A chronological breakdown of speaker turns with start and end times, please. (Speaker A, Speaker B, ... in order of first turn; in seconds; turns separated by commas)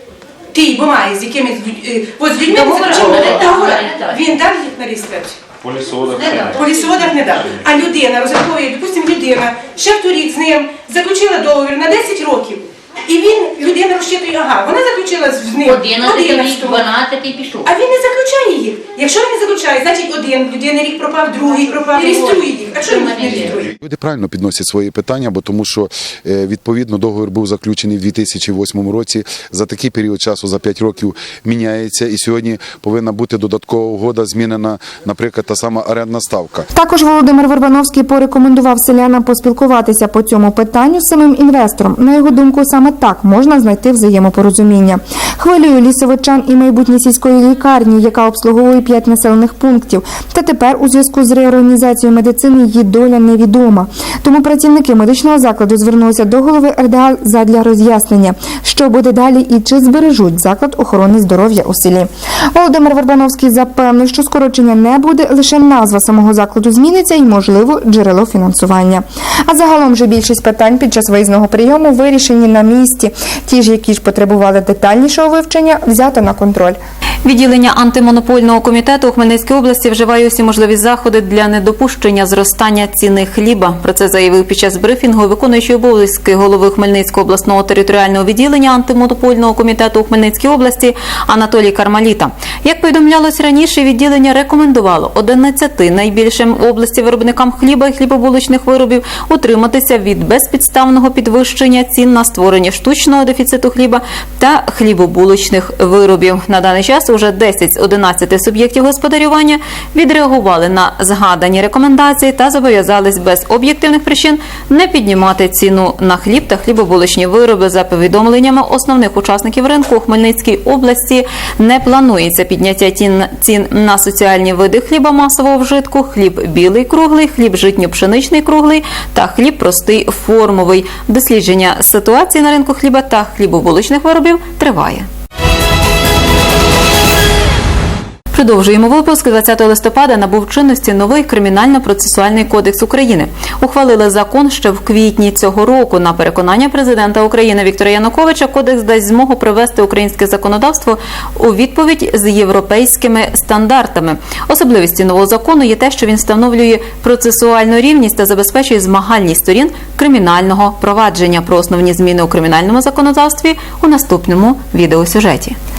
Speaker A: 0.5-5.4, Speaker B: 2.4-4.2, Speaker B: 6.1-7.1, Speaker A: 6.5-16.8, Speaker B: 15.6-17.7, Speaker A: 17.6-23.7, Speaker B: 21.9-23.6, Speaker C: 23.7-36.7, Speaker D: 36.7-76.8, Speaker E: 77.2-135.1, Speaker E: 138.3-165.6